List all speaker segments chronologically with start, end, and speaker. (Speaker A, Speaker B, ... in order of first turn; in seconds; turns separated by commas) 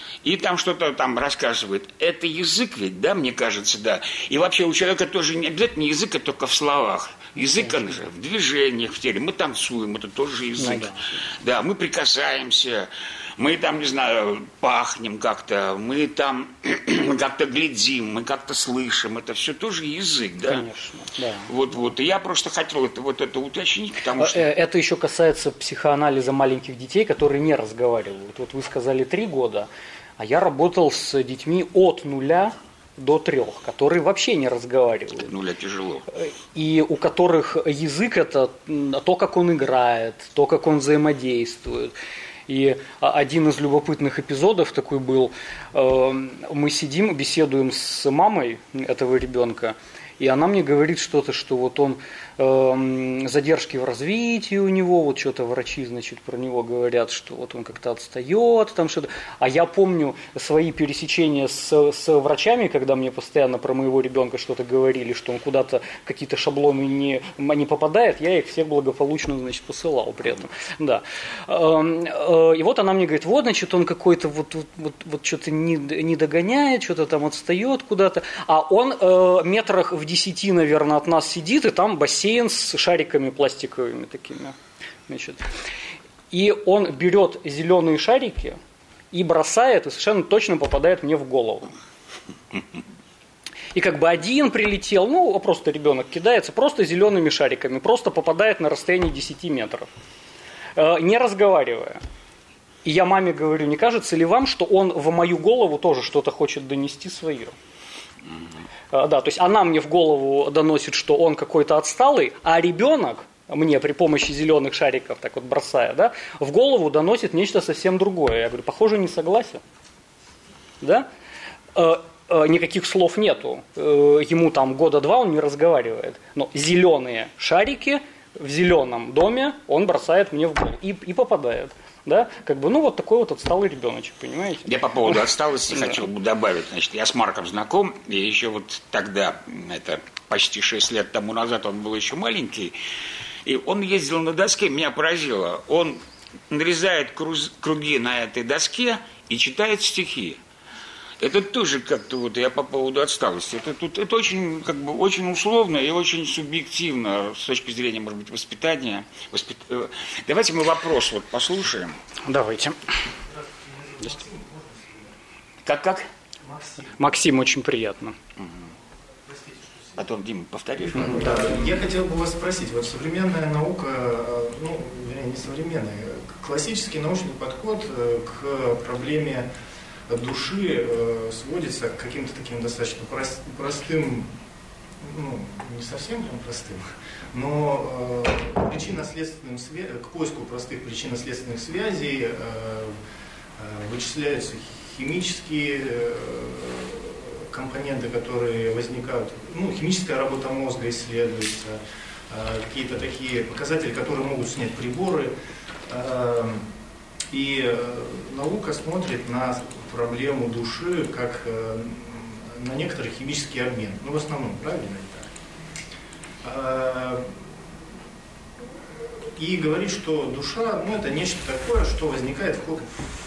Speaker A: 0.2-20.6, Speaker B: 10.6-11.2, Speaker B: 20.4-21.5, Speaker A: 21.5-24.5, Speaker B: 24.2-35.3, Speaker A: 35.2-36.1, Speaker B: 36.2-41.9, Speaker B: 42.5-84.6, Speaker B: 85.1-85.5, Speaker B: 86.3-88.6, Speaker B: 89.1-91.7, Speaker B: 93.7-99.9, Speaker B: 100.8-102.0, Speaker B: 102.8-107.5, Speaker B: 108.9-119.6, Speaker B: 120.8-121.1, Speaker B: 121.8-134.7, Speaker A: 134.7-142.8, Speaker A: 143.4-150.4, Speaker A: 151.2-162.0, Speaker B: 162.2-162.8, Speaker C: 164.0-164.9, Speaker A: 165.7-166.1, Speaker B: 167.0-168.2, Speaker A: 170.0-171.8, Speaker C: 171.0-179.5, Speaker C: 180.1-184.3, Speaker C: 185.0-193.0, Speaker C: 193.6-201.8, Speaker C: 202.3-205.3, Speaker C: 205.9-206.7, Speaker C: 207.3-215.3, Speaker C: 216.4-217.4, Speaker C: 219.4-222.9